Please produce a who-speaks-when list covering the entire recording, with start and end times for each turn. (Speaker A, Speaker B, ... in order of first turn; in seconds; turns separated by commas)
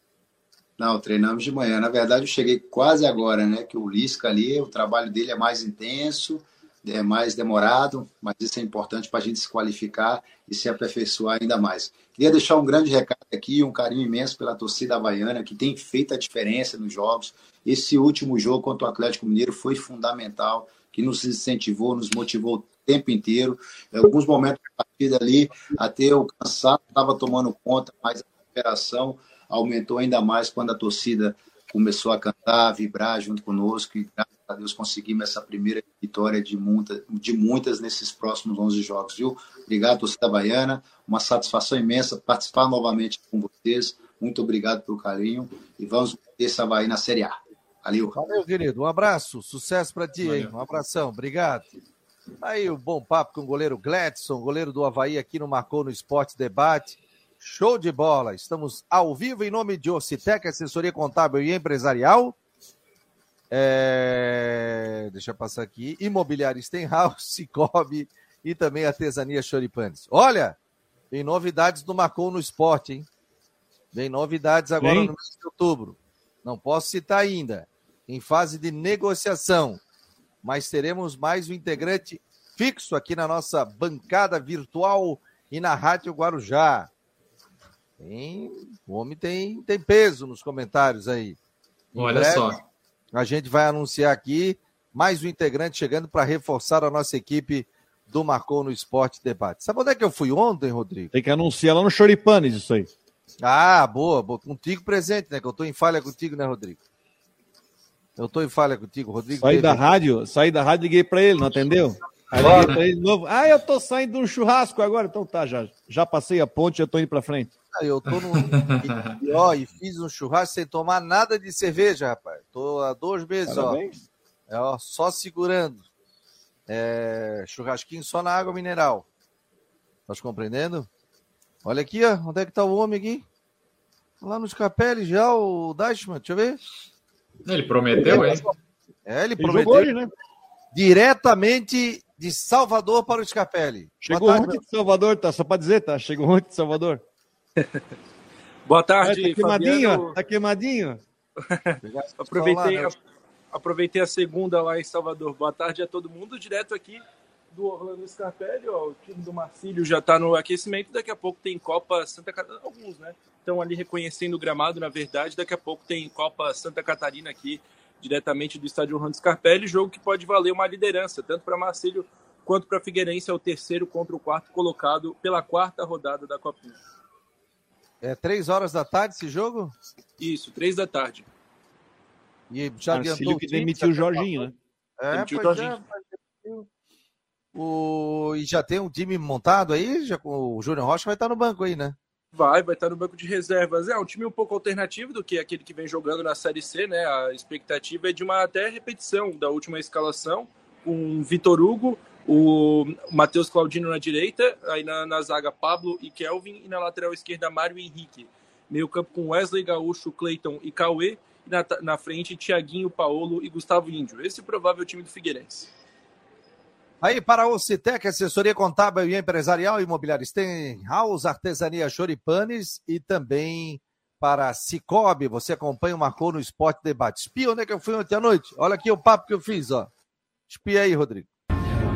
Speaker A: 0.8-48.2, Speaker B: 48.1-51.7, Speaker C: 50.2-50.5, Speaker B: 52.4-62.4, Speaker B: 63.5-70.6, Speaker B: 71.1-73.1, Speaker B: 73.9-79.8, Speaker D: 74.8-75.1, Speaker B: 80.4-86.9, Speaker B: 88.0-91.4, Speaker B: 91.9-92.5, Speaker C: 92.0-92.6, Speaker B: 93.1-101.1, Speaker D: 101.1-102.9, Speaker B: 103.4-106.8, Speaker B: 108.2-109.8, Speaker D: 109.4-117.5, Speaker C: 112.4-112.8, Speaker B: 117.7-123.8, Speaker C: 118.1-119.2, Speaker D: 123.5-124.0, Speaker B: 124.5-125.8, Speaker B: 126.7-129.1, Speaker B: 130.1-130.9, Speaker B: 131.6-133.2, Speaker B: 134.2-136.6, Speaker C: 137.5-138.4, Speaker D: 138.0-138.4, Speaker B: 138.1-138.4, Speaker B: 139.1-139.9, Speaker D: 139.4-140.1, Speaker B: 140.7-144.6, Speaker D: 144.0-147.0, Speaker E: 148.7-150.2, Speaker D: 149.0-151.0, Speaker E: 151.5-153.0, Speaker B: 151.8-152.9, Speaker E: 153.5-176.8, Speaker B: 178.0-179.7, Speaker E: 180.2-181.3, Speaker B: 182.5-184.3, Speaker D: 182.9-184.5, Speaker B: 185.0-186.7, Speaker E: 185.1-185.8, Speaker B: 187.6-192.0, Speaker E: 192.3-215.7, Speaker B: 217.0-229.9, Speaker B: 230.5-231.3